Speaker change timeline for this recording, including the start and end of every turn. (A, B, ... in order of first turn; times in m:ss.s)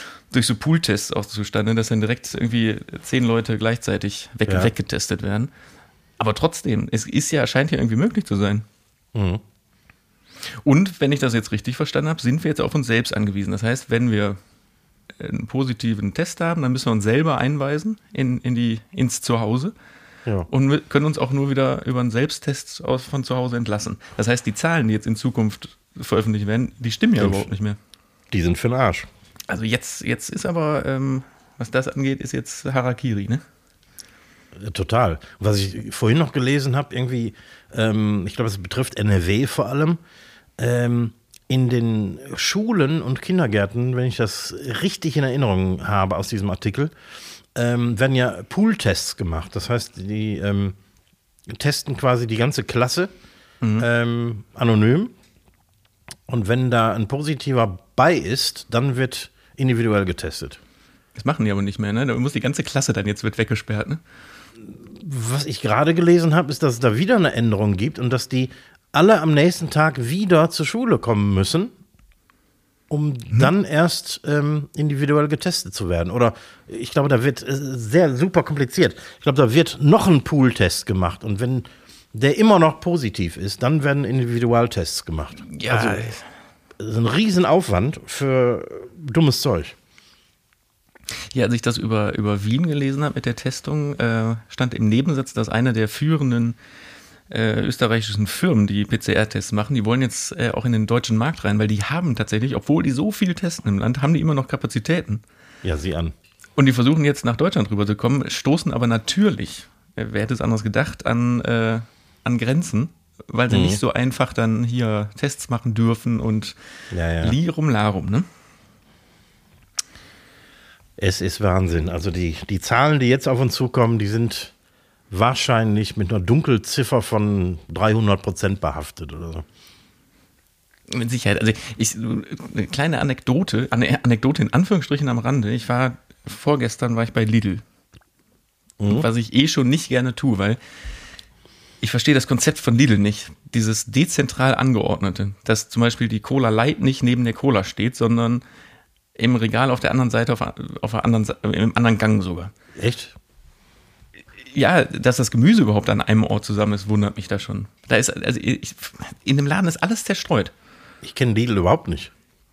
0:00.3-0:05.5 A
0:06.2-0:08.6 A
0:09.1-0:09.4 B
0:10.6-0:14.4 A
0:15.2-0:19.7 A
0:20.5-0:27.8 A
0:27.2-0:27.5 B
0:28.3-0:29.1 B
0:29.5-0:33.4 A
0:34.6-0:40.0 B
0:40.6-0:46.9 B
0:47.5-0:50.8 B
0:51.5-0:53.1 B
0:53.8-0:55.1 B
0:56.3-1:00.6 B
1:01.2-1:04.0 A
1:04.6-1:11.7 B
1:12.9-1:26.1 B
1:25.5-1:26.2 A
1:26.8-1:29.7 B
1:31.3-1:36.6 A
1:37.3-1:45.2 A
1:45.6-1:46.1 B
1:46.6-1:56.6 A
1:53.5-1:53.8 B
1:56.9-1:57.4 B
1:57.2-1:58.2 A
2:01.0-2:04.5 B
2:05.1-2:09.4 B
2:10.9-2:17.6 A
2:18.8-2:19.1 B
2:18.9-2:20.6 A
2:21.8-2:28.4 A
2:29.2-2:32.5 A
2:32.8-2:33.2 B
2:34.5-2:40.5 A
2:41.0-2:42.1 B